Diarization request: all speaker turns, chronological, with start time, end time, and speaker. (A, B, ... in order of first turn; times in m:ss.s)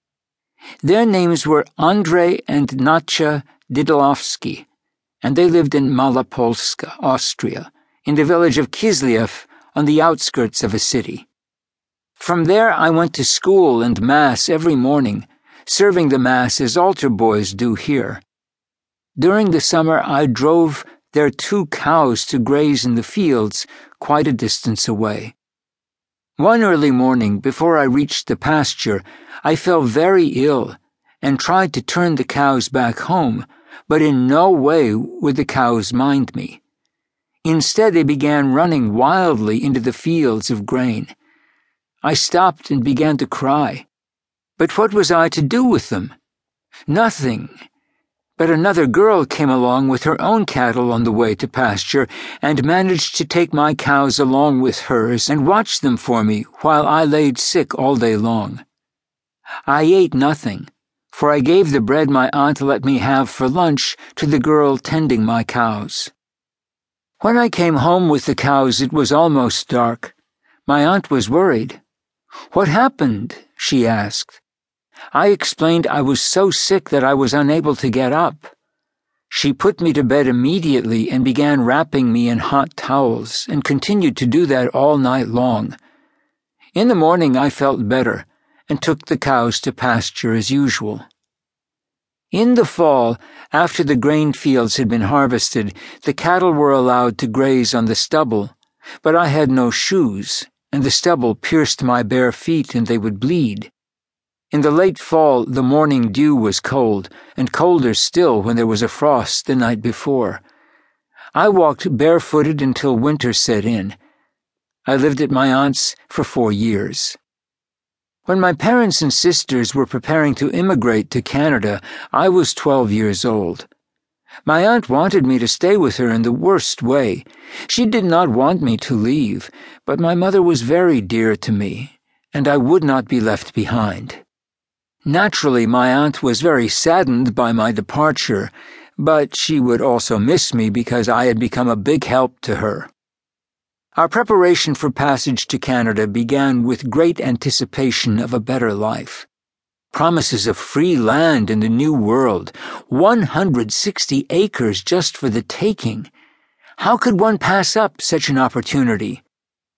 0:00.8-0:04.7 A
0:05.2-0:11.3 A
0:12.2-0:18.2 A
0:19.2-0:25.3 A
0:26.4-0:36.6 A
0:37.4-0:41.1 A
0:42.0-0:43.9 A
0:44.6-0:46.1 A
0:46.9-0:47.5 A
0:48.4-0:58.6 A
0:59.7-1:06.1 A
1:07.2-1:10.1 A
1:10.6-1:11.8 A
1:12.5-1:14.4 A
1:15.1-1:18.5 A
1:19.3-1:25.7 A
1:26.7-1:31.0 A
1:32.3-1:43.7 A
1:44.5-1:50.4 A
1:51.3-1:54.0 A
1:54.8-1:57.2 A
1:58.2-2:03.7 A
2:04.4-2:14.2 A
2:15.0-2:22.9 A
2:24.0-2:29.3 A
2:29.9-2:36.1 A
2:36.8-2:39.2 A